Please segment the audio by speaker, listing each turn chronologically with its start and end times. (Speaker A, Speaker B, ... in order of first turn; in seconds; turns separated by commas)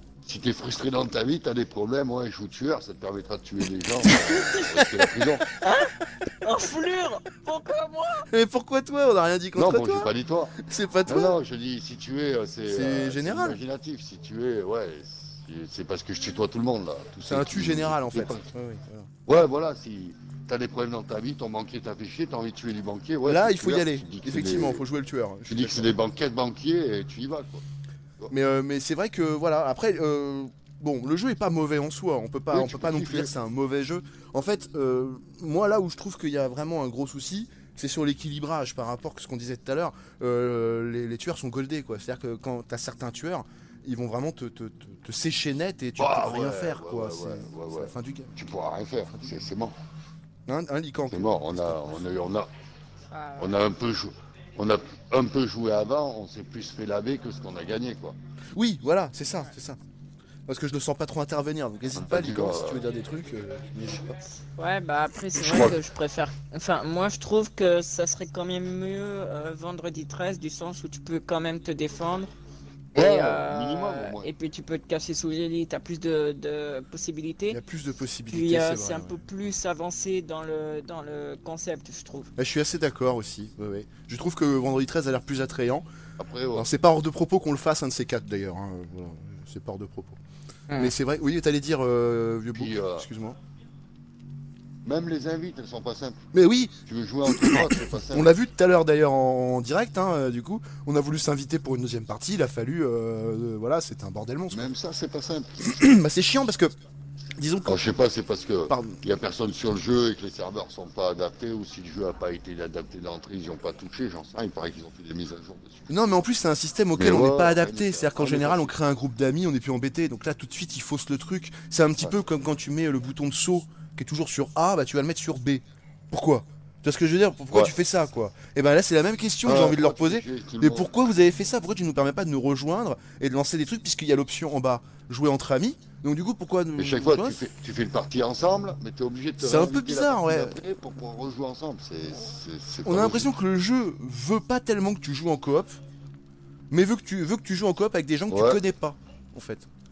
Speaker A: 0.2-5.4, Speaker B: 4.7-5.4, Speaker C: 5.6-8.3, Speaker B: 8.3-11.4, Speaker A: 9.6-10.5, Speaker A: 11.1-18.5, Speaker B: 12.7-13.6, Speaker B: 17.3-19.1, Speaker A: 19.2-24.8, Speaker B: 23.2-25.9, Speaker A: 25.5-27.6, Speaker B: 28.3-48.4, Speaker A: 32.5-33.3, Speaker A: 46.0-49.7, Speaker B: 49.1-49.5, Speaker B: 50.5-52.1, Speaker A: 51.1-52.5, Speaker C: 53.1-53.7, Speaker A: 53.4-58.1, Speaker B: 58.5-59.8, Speaker B: 60.5-64.2, Speaker A: 62.0-62.8, Speaker C: 64.6-72.3, Speaker A: 65.3-65.8, Speaker A: 72.9-74.3, Speaker C: 72.9-77.6, Speaker B: 77.5-79.2, Speaker C: 78.3-82.3, Speaker B: 82.4-85.8, Speaker A: 86.2-86.7, Speaker B: 86.5-90.2, Speaker C: 90.7-90.9, Speaker B: 90.8-93.4, Speaker A: 92.5-93.1, Speaker A: 94.8-96.2, Speaker B: 96.3-104.7, Speaker A: 96.8-98.3, Speaker A: 104.5-105.7, Speaker B: 105.6-106.7, Speaker B: 107.4-108.0, Speaker A: 107.6-116.2, Speaker B: 108.7-109.0, Speaker B: 115.9-137.4, Speaker A: 117.0-118.7, Speaker A: 129.4-130.9, Speaker A: 136.8-143.3, Speaker B: 139.4-140.6, Speaker B: 142.8-145.8, Speaker B: 146.7-149.7, Speaker A: 148.3-148.6